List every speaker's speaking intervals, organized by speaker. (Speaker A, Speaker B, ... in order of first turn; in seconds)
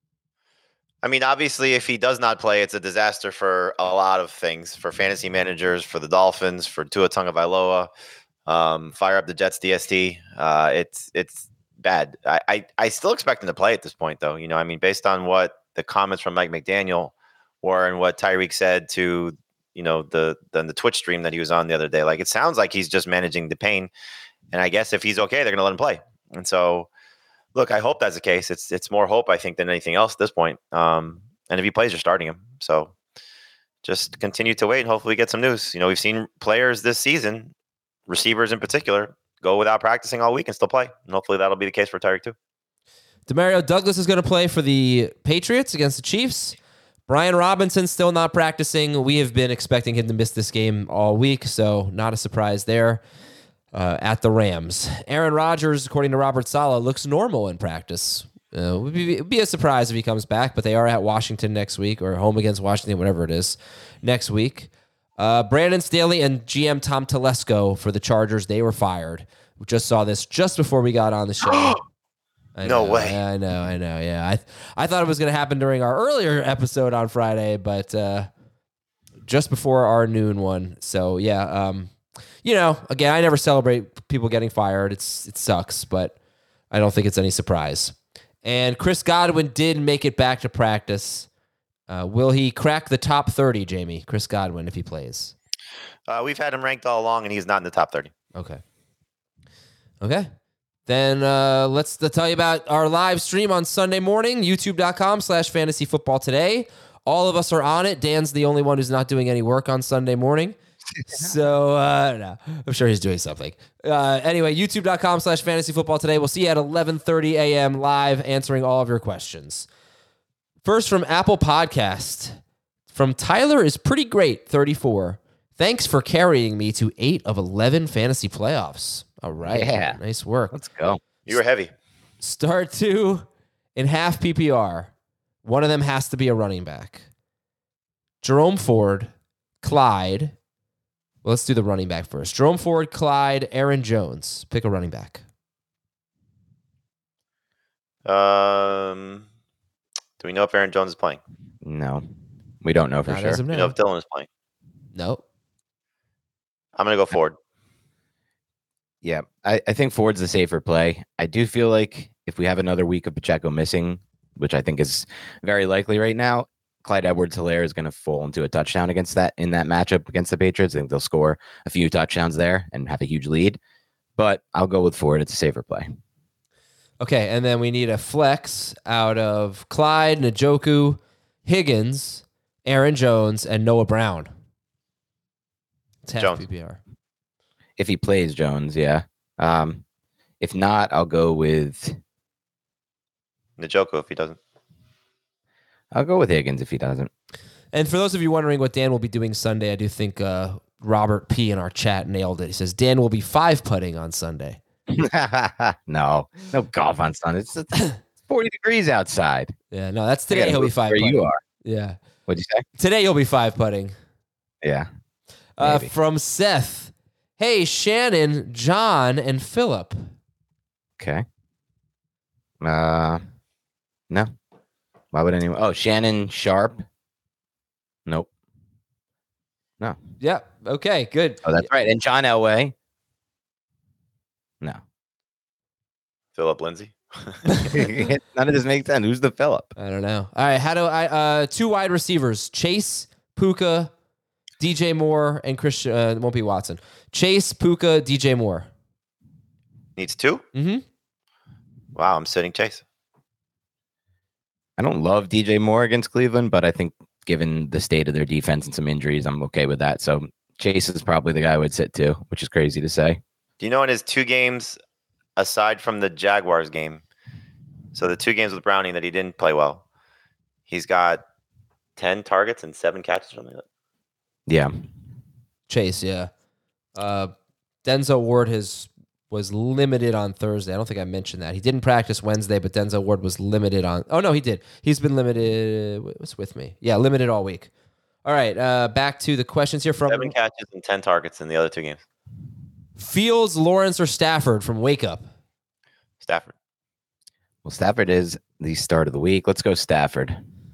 Speaker A: 1.0-7.9, 8.5-23.9, 24.5-26.9, 27.6-32.9, 33.8-37.5, 38.1-42.4, 71.4-71.8, 72.6-73.2, 96.1-98.1, 131.3-131.7, 148.1-149.2, 150.2-151.2, 153.5-154.3, 156.8-157.4, 186.2-186.4, 193.6-194.4, 236.4-237.4, 250.0-250.4, 251.9-252.8, 263.6-264.8, 265.4-267.0, 267.9-269.8, 270.7-271.2, 272.0-273.6, 290.1-292.0, 296.2-296.5
Speaker B: 43.3-46.6, 47.1-53.0, 53.7-71.8, 72.6-78.3, 79.3-81.9, 82.4-86.2, 86.7-91.3, 91.9-95.3, 98.3-98.6, 100.0-100.3, 100.9-110.6, 111.1-119.7, 120.6-122.4, 122.9-130.6, 132.2-133.2, 133.8-134.9, 135.4-137.0, 138.2-139.1, 139.6-140.3, 141.2-145.2, 153.1-153.8, 154.9-155.2, 177.0-184.3, 186.1-186.8, 197.7-204.6, 209.7-212.0, 212.8-213.9, 215.6-220.0, 230.2-231.7, 239.8-243.9, 244.6-248.7, 250.5-250.8, 275.7-276.3, 276.9-277.3, 277.8-287.7, 288.2-290.3, 293.0-295.3
Speaker C: 111.0-111.4, 129.4-130.0, 130.5-131.0, 151.6-152.0, 152.6-153.4, 159.0-173.6, 174.2-175.9, 187.8-189.8, 190.4-192.0, 195.9-197.1, 204.9-209.5, 210.3-211.4, 212.3-212.6, 214.6-214.9, 215.6-215.9, 221.0-221.2, 222.6-223.2, 225.1-226.8, 231.4-232.7, 237.7-239.7, 254.8-263.2, 274.5-274.8, 297.6-300.4